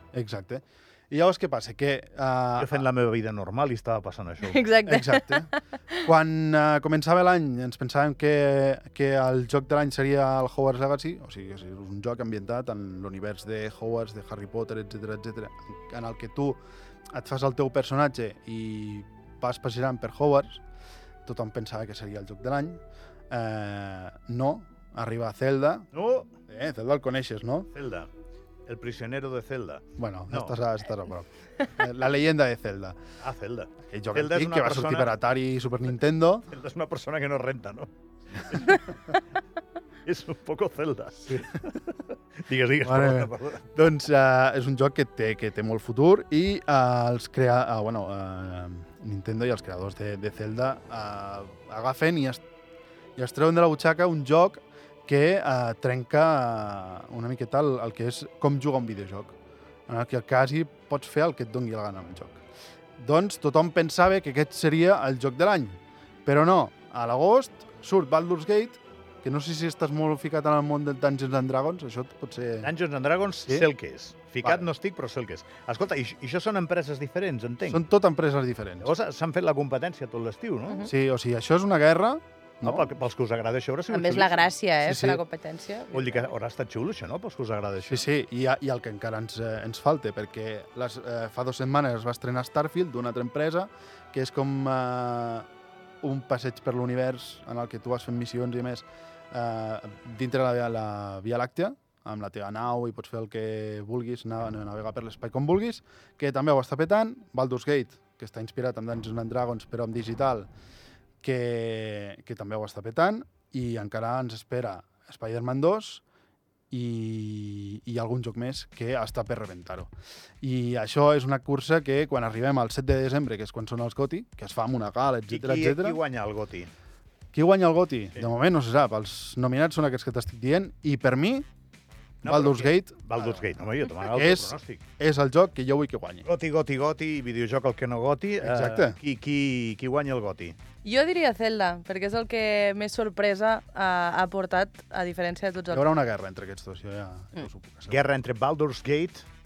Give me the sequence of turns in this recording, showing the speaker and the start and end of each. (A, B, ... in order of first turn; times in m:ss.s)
0:00.1-0:02.8 A
0:02.6-0:04.6 B
0:04.4-0:06.0 C
0:04.8-0:05.5 A
0:06.0-0:16.6 A
0:17.1-0:20.6 A
0:21.2-0:25.9 A
0:25.9-0:26.3 B
0:26.5-0:27.7 A
0:27.7-0:28.1 B
0:28.7-0:30.6 B
0:30.0-0:33.0 A
0:33.2-0:35.1 B
0:33.9-0:36.5 A
0:36.5-0:38.9 B
0:40.0-0:43.7 B
0:42.8-0:52.4 A
0:53.2-0:59.3 A
0:59.9-1:02.4 A
1:03.0-1:12.7 A
1:12.6-1:17.8 B
1:14.4-1:14.7 A
1:17.7-1:18.9 A
1:18.8-1:20.9 B
1:20.9-1:22.9 A
1:22.6-1:24.5 B
1:23.9-1:26.3 C
1:24.8-1:25.2 A
1:25.9-1:28.0 B
1:27.8-1:35.4 A
1:36.0-1:50.5 A
1:51.2-1:56.0 A
1:56.7-1:59.9 A
2:00.4-2:06.0 A
2:05.3-2:06.7 B
2:07.3-2:11.4 A
2:12.2-2:13.4 A
2:12.2-2:14.8 B
2:14.1-2:16.2 A
2:16.2-2:20.6 B
2:18.4-2:19.0 A
2:20.8-2:25.9 C
2:25.7-2:28.0 A
2:27.9-2:29.2 B